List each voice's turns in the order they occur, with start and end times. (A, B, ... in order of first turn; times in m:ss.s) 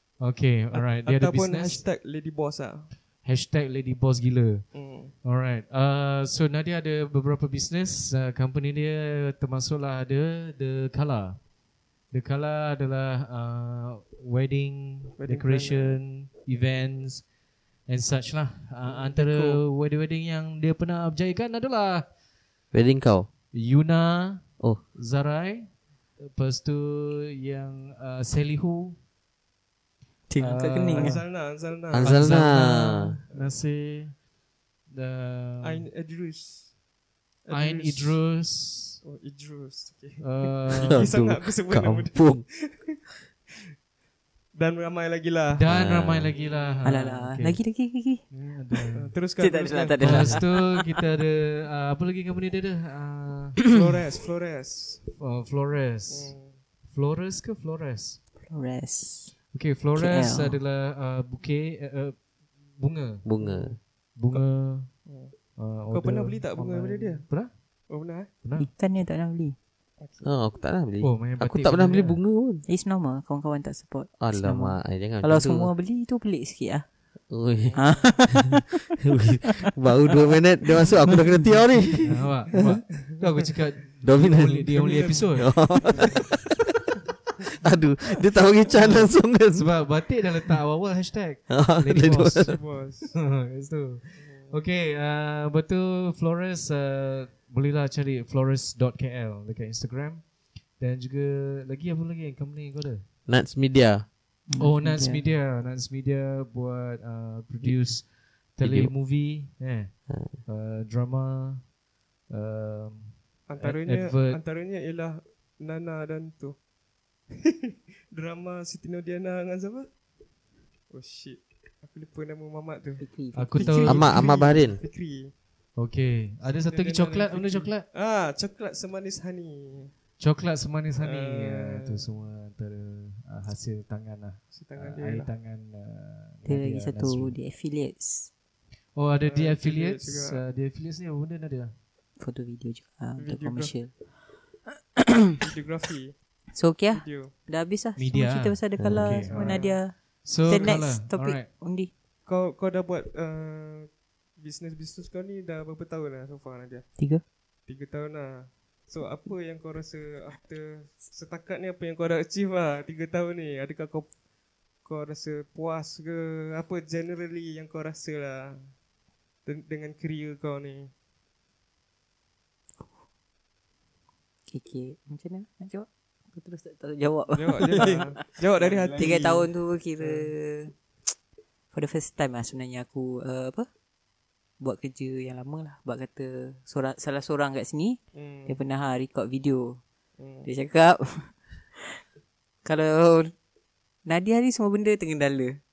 0:00.2-0:01.8 A
0:00.7-0:02.9 B
0:03.2-0:11.4 A
0:04.7-0:05.1 B
0:12.1-0:17.3 A
0:15.2-0:16.0 B
0:17.8-0:22.1 A
0:18.8-0:19.6 B
0:22.7-0:23.3 C
0:23.5-0:29.0 A
0:30.3-0:31.2 D
0:30.4-0:31.2 A
0:30.9-0:32.2 B
0:31.9-0:33.1 C
0:32.0-0:34.2 A
0:34.9-0:35.8 A
0:35.6-0:36.7 B
0:37.4-0:38.2 B
0:37.5-0:39.0 A
0:39.0-0:43.1 B
0:40.2-0:41.0 A
0:40.9-0:42.4 C
0:44.5-0:45.6 B
0:45.6-0:47.7 A
0:45.7-0:46.3 C
0:46.3-0:47.0 B
0:46.8-0:48.2 D
0:48.3-0:49.1 A
0:48.9-0:50.4 B
0:49.4-0:50.7 D
0:50.0-0:53.8 A
0:53.7-0:55.0 B
0:55.2-0:56.3 A
0:56.1-0:56.6 B
0:56.9-0:58.2 A
0:58.4-0:59.4 D
0:59.5-1:03.2 A
1:00.0-1:00.6 D
1:03.2-1:03.8 C
1:03.4-1:03.8 B
1:04.1-1:07.5 A
1:04.3-1:05.3 B
1:05.9-1:07.2 B
1:07.9-1:08.3 B
1:08.4-1:08.7 A
1:08.6-1:09.5 D
1:10.0-1:10.3 B
1:10.2-1:12.6 C
1:11.0-1:12.2 A
1:12.7-1:16.8 D
1:14.2-1:15.7 C
1:17.3-1:18.2 C
1:17.6-1:18.1 B
1:17.7-1:18.6 D
1:19.1-1:22.2 C
1:22.0-1:25.6 A
1:24.0-1:26.4 C
1:27.6-1:29.8 C
1:28.8-1:32.6 A
1:31.5-1:32.6 C
1:32.4-1:33.1 B
1:33.1-1:43.0 A
1:34.2-1:34.6 B
1:43.3-1:44.1 C
1:44.5-1:45.2 D
1:44.6-1:51.7 A
1:47.6-1:48.9 C
1:50.1-1:50.4 C
1:52.3-1:54.4 A
1:53.5-1:56.6 B
1:58.1-1:59.9 B
2:00.9-2:03.0 B
2:03.0-2:04.1 D
2:03.3-2:04.1 A
2:03.8-2:05.3 B
2:03.8-2:04.8 C
2:05.8-2:07.8 A
2:06.7-2:09.9 B
2:10.2-2:17.3 A
2:11.0-2:12.0 B
2:14.5-2:15.3 B
2:16.4-2:18.3 D
2:18.9-2:21.7 A
2:19.2-2:20.4 B
2:22.2-2:24.0 D
2:23.2-2:23.7 B
2:25.4-2:27.3 B
2:26.6-2:31.9 D
2:28.0-2:31.5 A
2:28.8-2:29.1 C
2:29.3-2:29.8 B
2:32.2-2:37.0 B
2:37.6-2:44.1 B
2:44.8-2:48.7 B
2:49.4-2:50.9 B
2:54.5-2:58.4 D
2:57.3-3:00.3 B
2:58.6-2:59.3 A
2:59.0-3:00.7 D
3:01.7-3:03.7 D
3:04.6-3:09.8 D
3:08.1-3:08.6 B
3:10.2-3:10.5 B
3:10.4-3:11.4 D
3:12.6-3:13.3 D
3:14.1-3:15.5 D